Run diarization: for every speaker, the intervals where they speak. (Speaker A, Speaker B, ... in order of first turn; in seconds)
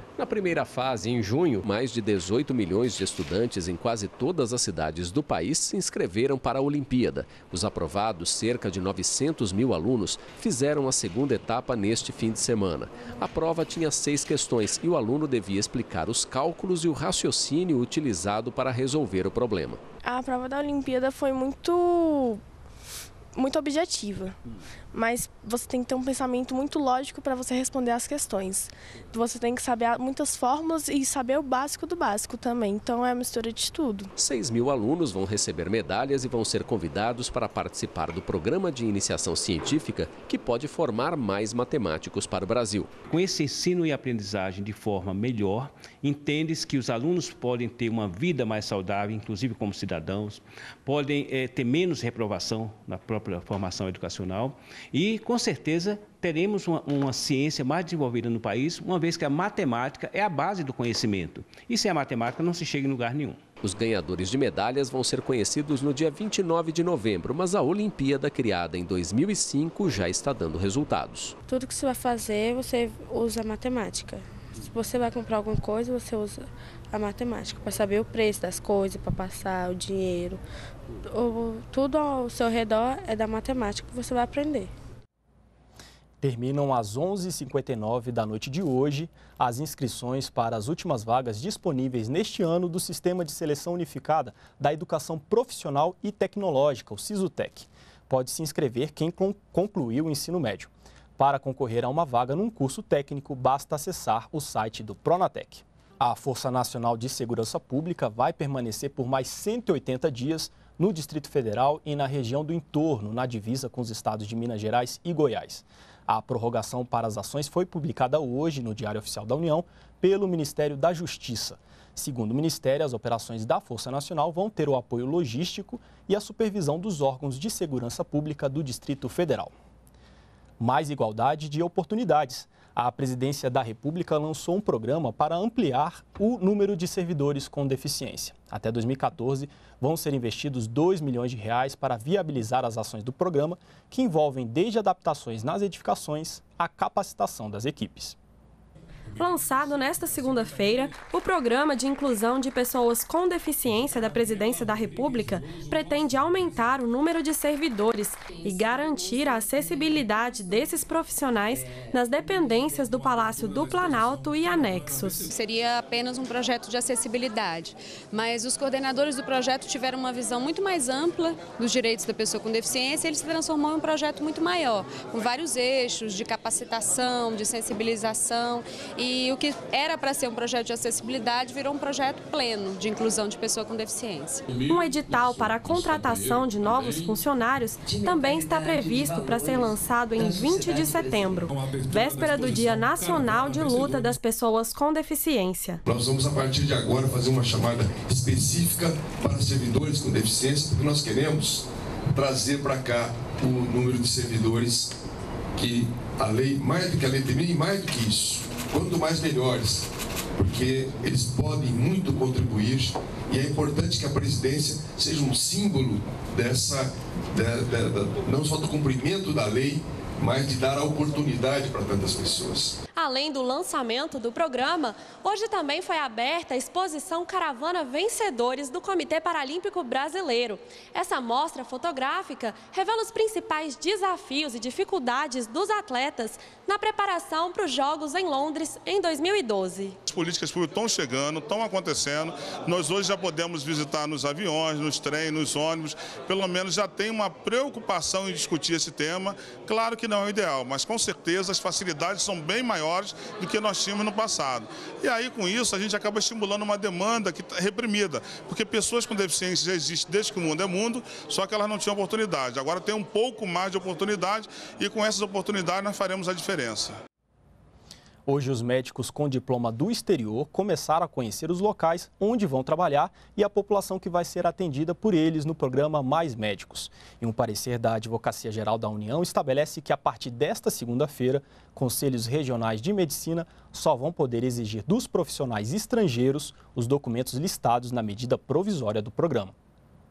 Speaker A: 0.2-19.8, 34.2-42.9, 63.6-71.3
Speaker B: 20.0-22.4, 23.3-24.4, 24.9-34.1
Speaker C: 43.1-63.4
Speaker D: 71.5-80.4, 81.0-84.7
Speaker E: 86.2-129.5, 130.6-148.2, 268.2-289.5
Speaker F: 149.2-165.3, 184.6-195.8, 222.9-239.9
Speaker G: 165.3-184.4
Speaker H: 195.8-204.9, 205.6-222.8
Speaker I: 240.1-267.0